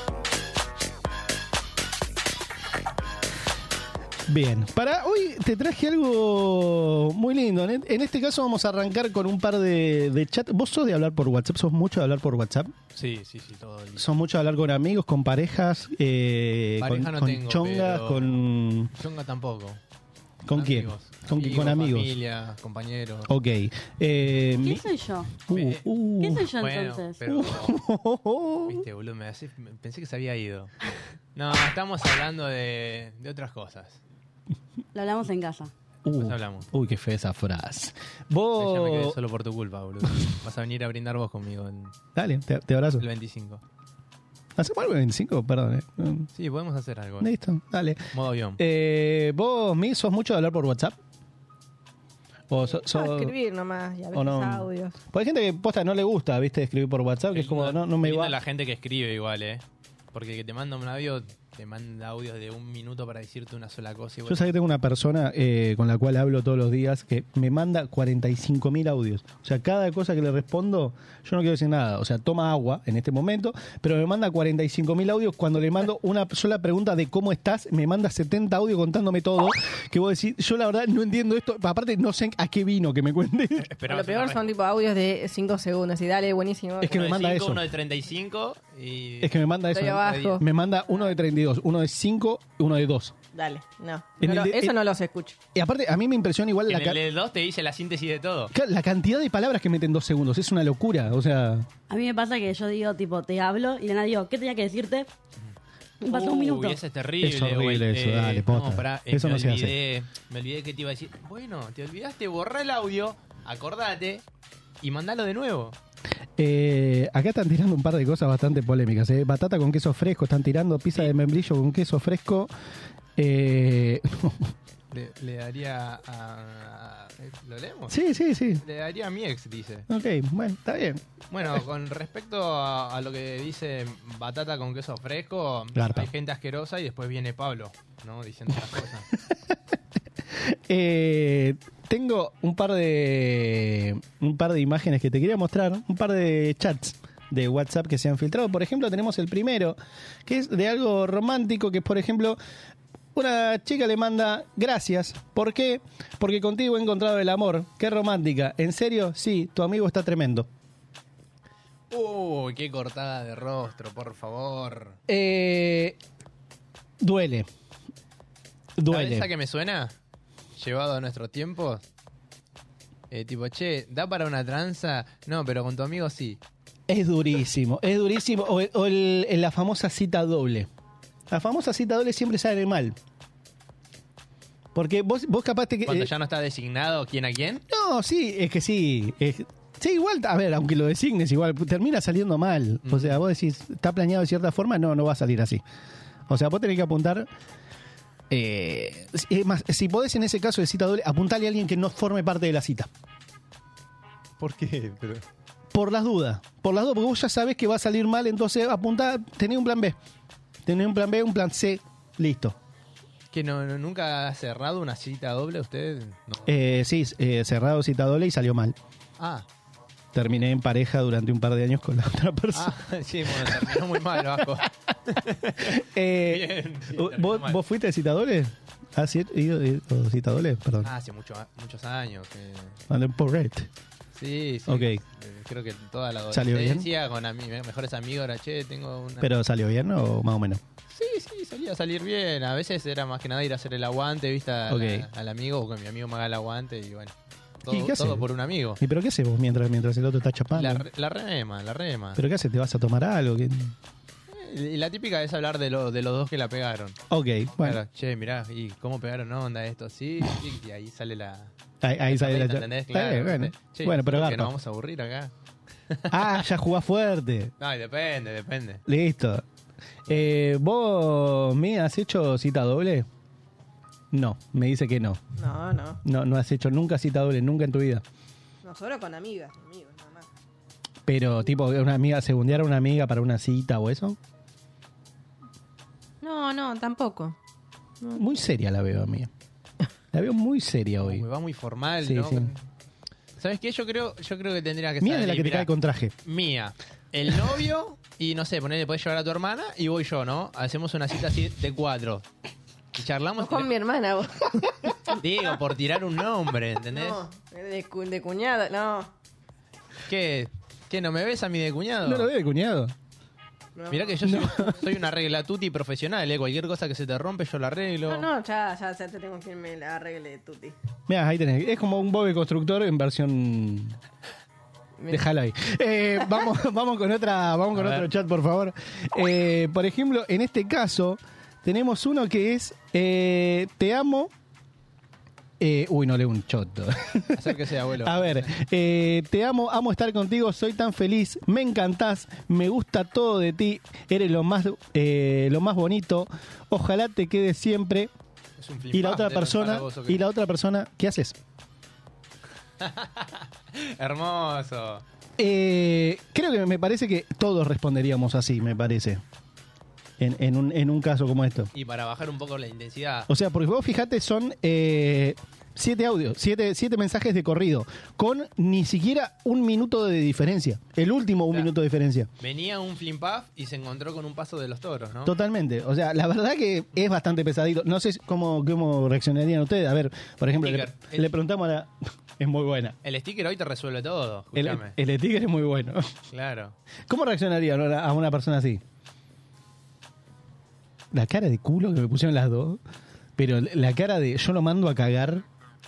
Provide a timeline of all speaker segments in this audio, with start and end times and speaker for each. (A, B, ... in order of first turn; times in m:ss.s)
0:04.3-0:12.7 A
0:13.0-0:14.1 B
0:14.0-0:18.9 A
0:16.8-0:18.4 B
0:19.0-0:19.8 B
0:20.4-0:22.1 A
0:20.5-0:23.3 B
0:23.3-0:24.8 A
0:24.6-0:25.4 C
0:25.5-0:26.5 A
0:25.5-0:25.8 B
0:26.2-0:27.4 C
0:26.6-0:27.7 B
0:27.3-0:28.8 A
0:28.7-0:30.7 B
0:31.4-0:34.0 B
0:34.9-0:35.7 C
0:36.0-0:39.2 A
0:36.1-0:36.7 B
0:38.6-0:41.9 B
0:42.2-0:43.0 A
0:43.0-0:43.6 B
0:44.6-0:46.3 A
0:46.4-0:47.3 B
0:47.2-0:48.0 A
0:48.1-0:48.6 B
0:48.6-0:51.0 A
0:52.5-0:53.3 A
0:52.6-0:55.0 D
0:54.1-0:58.4 A
0:57.3-1:04.5 B
1:04.3-1:23.7 A
1:23.6-1:24.4 B
1:23.9-1:27.0 D
1:26.8-1:27.6 A
1:26.9-1:30.4 B
1:29.2-1:33.1 A
1:29.7-1:31.1 D
1:33.3-1:35.4 D
1:34.2-1:34.7 A
1:35.6-1:37.0 A
1:36.7-1:38.5 B
1:38.5-1:41.7 A
1:41.9-1:45.1 C
1:46.0-1:46.8 C
1:46.0-1:54.2 B
1:47.2-1:49.8 A
1:54.8-1:55.8 B
1:56.4-2:02.5 A
2:03.2-2:04.5 A
2:04.9-2:08.0 B
2:07.9-2:08.6 A
2:08.6-2:09.9 B
2:09.9-2:11.0 A
2:11.3-2:19.1 B
2:15.8-2:16.1 A
2:19.3-2:19.6 A
2:20.4-2:32.4 A
2:33.1-2:40.5 A
2:41.9-2:45.0 B
2:45.1-2:46.0 A
2:47.0-2:47.5 A
2:48.8-2:49.3 A
2:48.9-2:49.9 B
2:50.6-2:51.8 B
2:53.1-2:56.4 B
2:56.9-3:00.7 A
3:01.3-3:03.0 A
3:04.8-3:06.1 A
3:05.9-3:07.6 B
3:07.7-3:15.6 A
3:12.8-3:13.2 B
3:16.3-3:17.3 A
3:18.3-3:22.9 A
3:24.4-3:25.2 B
3:25.7-3:30.0 A
3:30.6-3:32.6 A
3:33.3-3:36.5 B
3:36.5-3:38.8 A
3:39.2-3:39.5 B
3:40.1-3:42.7 A
3:42.5-3:47.6 B
3:43.3-3:43.8 A
3:45.6-3:50.9 A
3:50.8-3:52.8 B
3:52.9-3:53.7 A
3:54.1-3:59.3 B
3:54.7-3:55.0 A
3:56.3-3:56.9 A
3:59.2-4:00.6 A
4:00.9-4:08.8 B
4:04.7-4:05.1 A
4:07.7-4:08.3 A
4:08.8-4:10.8 A
4:10.6-4:12.2 B
4:12.2-4:13.8 A
4:14.3-4:17.0 B
4:17.1-4:17.8 A
4:17.6-4:21.5 B
4:21.8-4:24.5 A
4:22.1-4:25.3 B
4:25.9-4:26.4 B
4:26.1-4:27.5 A
4:27.6-4:28.8 B
4:28.9-4:29.4 A
4:30.1-4:33.1 A
4:34.1-4:35.2 A
4:35.4-4:36.0 D
4:36.0-4:38.0 A
4:38.6-4:40.3 D
4:41.1-4:44.2 A
4:46.2-4:47.4 D
4:48.1-4:49.3 A
4:50.1-4:51.2 A
4:51.0-4:52.6 B
4:52.0-4:52.5 A
4:53.4-4:55.7 B
4:55.0-4:56.1 A
4:56.2-5:02.3 B
5:02.9-5:03.7 B
5:03.4-5:04.7 D
5:05.2-5:07.2 B
5:06.9-5:09.1 D
5:10.1-5:12.3 B
5:12.0-5:12.9 A
5:13.8-5:14.4 D
5:13.9-5:18.3 B
5:14.2-5:14.7 A
5:18.1-5:20.8 D
5:21.1-5:24.0 A
5:25.1-5:34.3 A
5:27.7-5:28.1 B
5:35.6-5:48.1 A
5:37.4-5:38.5 B
5:48.6-5:50.2 B
5:48.9-5:51.4 A
5:52.8-5:55.0 B
5:55.4-5:59.2 A
6:00.2-6:01.7 A
6:01.7-6:03.3 B
6:03.3-6:12.3 A
6:12.4-6:15.3 B
6:15.2-6:23.0 A
6:20.6-6:21.3 B
6:23.0-6:24.9 B
6:24.6-6:26.1 A
6:26.3-6:26.8 B
6:27.1-6:28.8 A
6:31.1-6:32.8 A
6:33.4-6:35.4 A